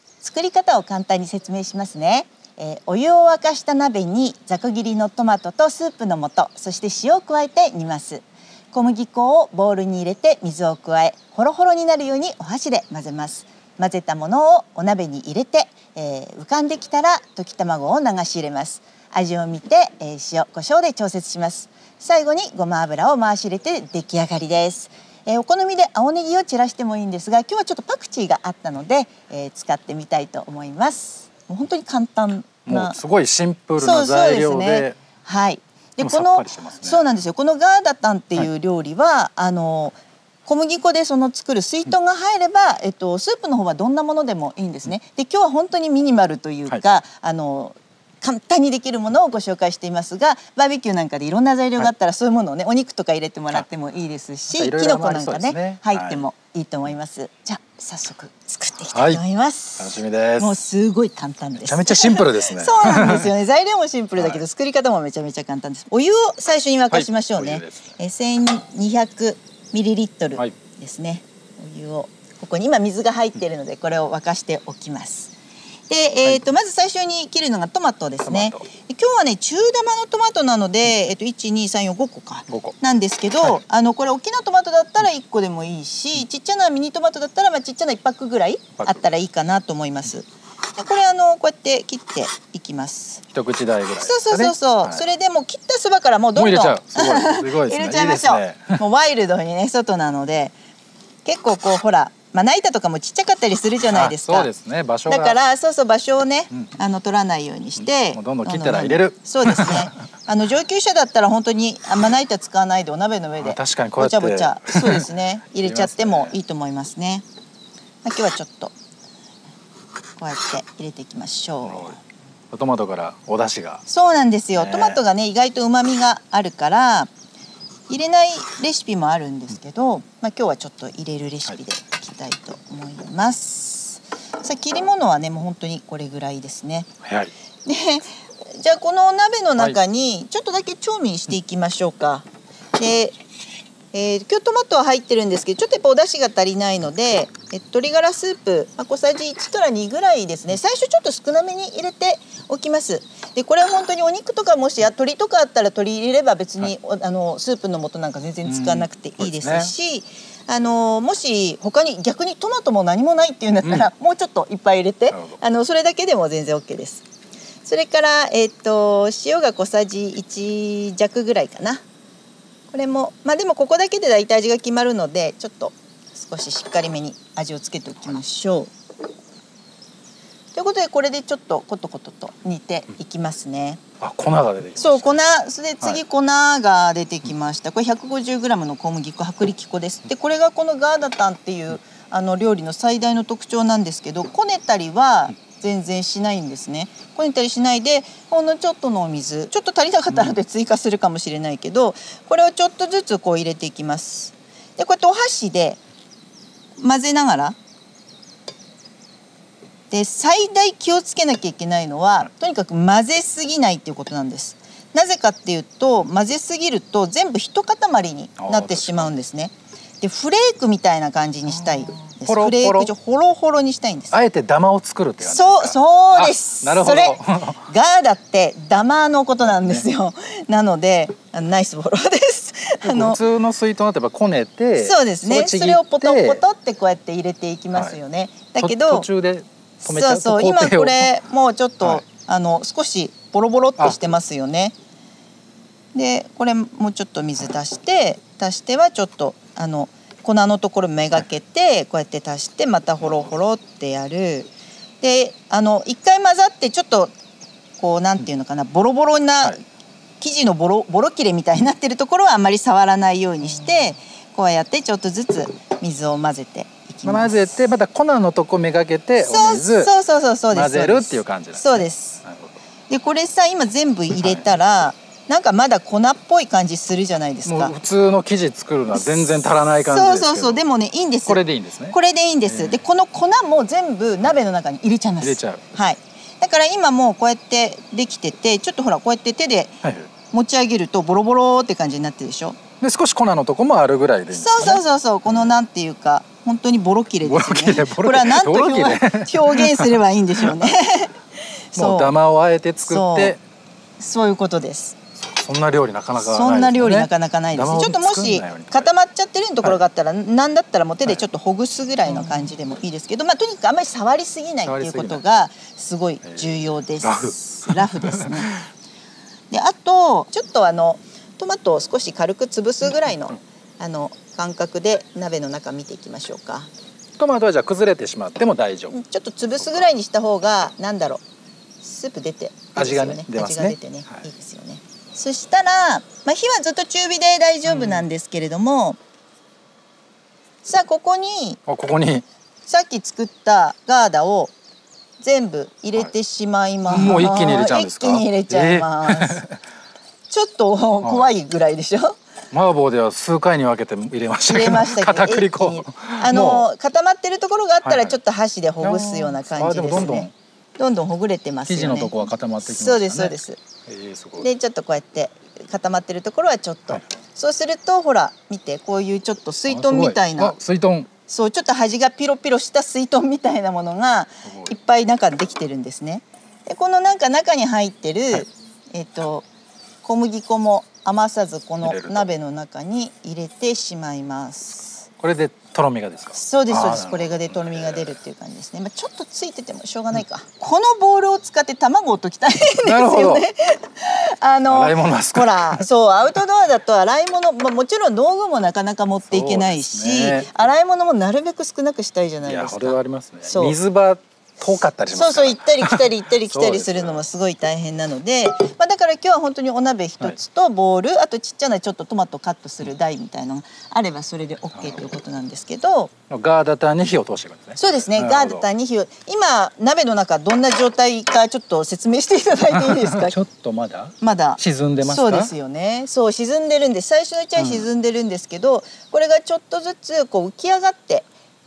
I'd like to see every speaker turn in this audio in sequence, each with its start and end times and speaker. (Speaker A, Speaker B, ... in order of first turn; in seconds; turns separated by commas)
Speaker A: 0.2-33.0, Speaker B: 32.7-35.0, Speaker A: 33.8-75.3, Speaker B: 36.0-37.0, Speaker B: 54.5-56.2, Speaker B: 58.8-59.2, Speaker B: 59.8-60.6, Speaker B: 61.6-63.3, Speaker B: 66.9-67.9, Speaker A: 75.9-93.2, Speaker B: 78.2-78.7, Speaker B: 82.5-82.8, Speaker B: 93.3-95.0, Speaker A: 94.0-100.6, Speaker B: 96.4-98.8, Speaker A: 101.2-104.5, Speaker B: 103.9-105.4, Speaker A: 105.1-117.2, Speaker B: 107.8-109.9, Speaker B: 113.4-115.1, Speaker B: 115.6-116.3, Speaker A: 118.0-118.7, Speaker A: 120.2-122.0, Speaker B: 121.7-122.0, Speaker B: 122.5-123.8, Speaker A: 123.9-127.1, Speaker B: 124.6-125.0, Speaker A: 127.9-136.9, Speaker B: 137.0-137.3, Speaker A: 137.7-143.2, Speaker A: 143.9-167.1, Speaker B: 158.4-159.7, Speaker B: 165.1-165.4, Speaker A: 167.6-171.8, Speaker A: 172.7-178.7, Speaker A: 180.5-183.8, Speaker B: 184.0-185.1, Speaker A: 184.8-205.8, Speaker A: 206.8-207.6, Speaker A: 209.9-224.2, Speaker B: 218.4-219.1, Speaker B: 221.5-222.9, Speaker B: 224.1-227.7, Speaker A: 225.2-233.2, Speaker B: 229.5-229.8, Speaker B: 232.8-236.4, Speaker A: 234.8-239.1, Speaker B: 237.7-238.0, Speaker B: 238.6-241.1, Speaker A: 239.8-244.8, Speaker A: 245.9-257.1, Speaker B: 253.0-253.3, Speaker A: 257.8-259.6, Speaker A: 260.2-267.5, Speaker B: 267.0-269.9, Speaker A: 269.2-272.2, Speaker B: 270.5-272.6, Speaker A: 272.9-277.7, Speaker B: 274.2-274.5, Speaker B: 277.5-280.6, Speaker A: 279.0-292.6, Speaker B: 281.3-282.8, Speaker B: 285.2-285.6, Speaker B: 289.8-290.1, Speaker B: 292.8-294.8, Speaker A: 294.3-301.1, Speaker B: 297.2-300.8, Speaker A: 301.7-302.1, Speaker B: 301.8-303.4, Speaker A: 302.9-303.4, Speaker A: 304.0-305.0, Speaker B: 305.2-308.9, Speaker A: 306.2-318.6, Speaker B: 312.1-312.5, Speaker B: 314.6-315.2, Speaker B: 316.2-318.6, Speaker A: 319.5-326.7, Speaker B: 327.2-329.0, Speaker A: 328.9-331.2, Speaker A: 331.8-339.0, Speaker B: 332.8-334.2, Speaker B: 337.6-338.1, Speaker A: 340.6-341.6, Speaker B: 341.7-342.2, Speaker A: 342.7-344.5, Speaker A: 345.2-349.4, Speaker B: 346.9-349.6, Speaker A: 350.3-352.2, Speaker B: 351.0-351.3, Speaker B: 352.5-356.7, Speaker A: 354.5-363.6, Speaker B: 357.8-358.2, Speaker B: 358.8-360.3, Speaker B: 361.7-364.5, Speaker A: 364.4-370.6, Speaker B: 369.7-371.1, Speaker A: 371.3-379.5, Speaker B: 374.5-374.7, Speaker A: 380.0-385.1, Speaker B: 381.8-382.3, Speaker B: 385.2-388.2, Speaker A: 386.3-403.8, Speaker B: 392.8-393.5, Speaker B: 394.7-395.9, Speaker B: 399.3-400.5, Speaker B: 402.4-407.2, Speaker A: 405.1-416.1, Speaker B: 416.3-418.7, Speaker A: 417.8-423.4, Speaker B: 422.7-425.5, Speaker A: 424.2-431.3, Speaker B: 427.6-427.9